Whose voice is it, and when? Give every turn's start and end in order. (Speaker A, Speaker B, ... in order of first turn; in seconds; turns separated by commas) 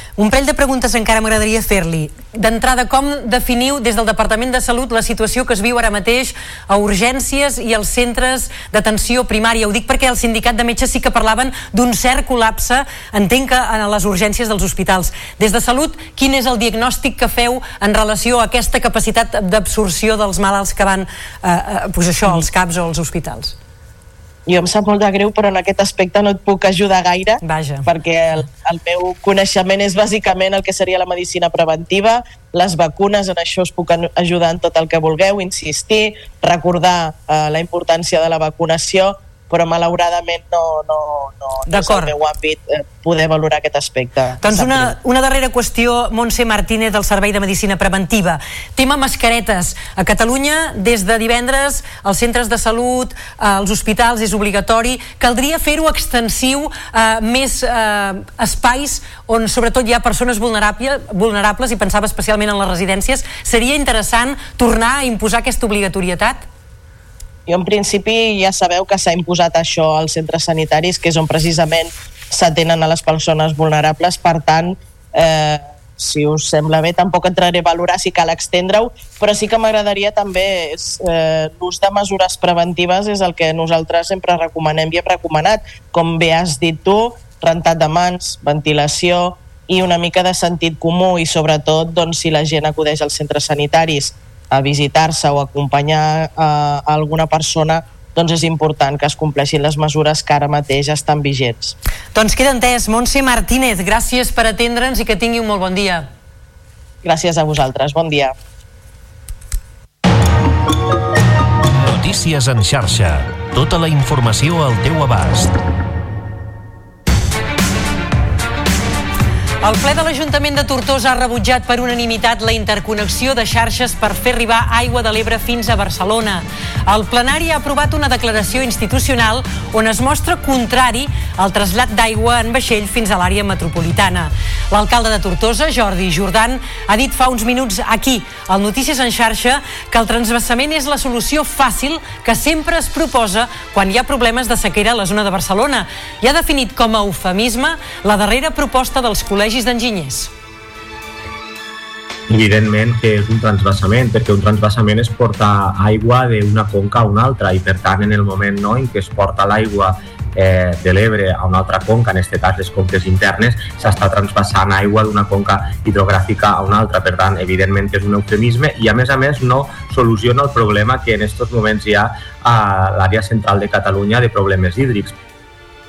Speaker A: 0.2-23.6, Speaker B: 24.5-44.9, Speaker A: 27.4-27.9, Speaker A: 41.7-42.1, Speaker A: 44.4-66.5, Speaker B: 67.5-101.8, Speaker A: 102.2-106.1, Speaker B: 107.0-108.3, Speaker C: 111.8-115.5, Speaker A: 119.6-150.3, Speaker D: 152.3-175.2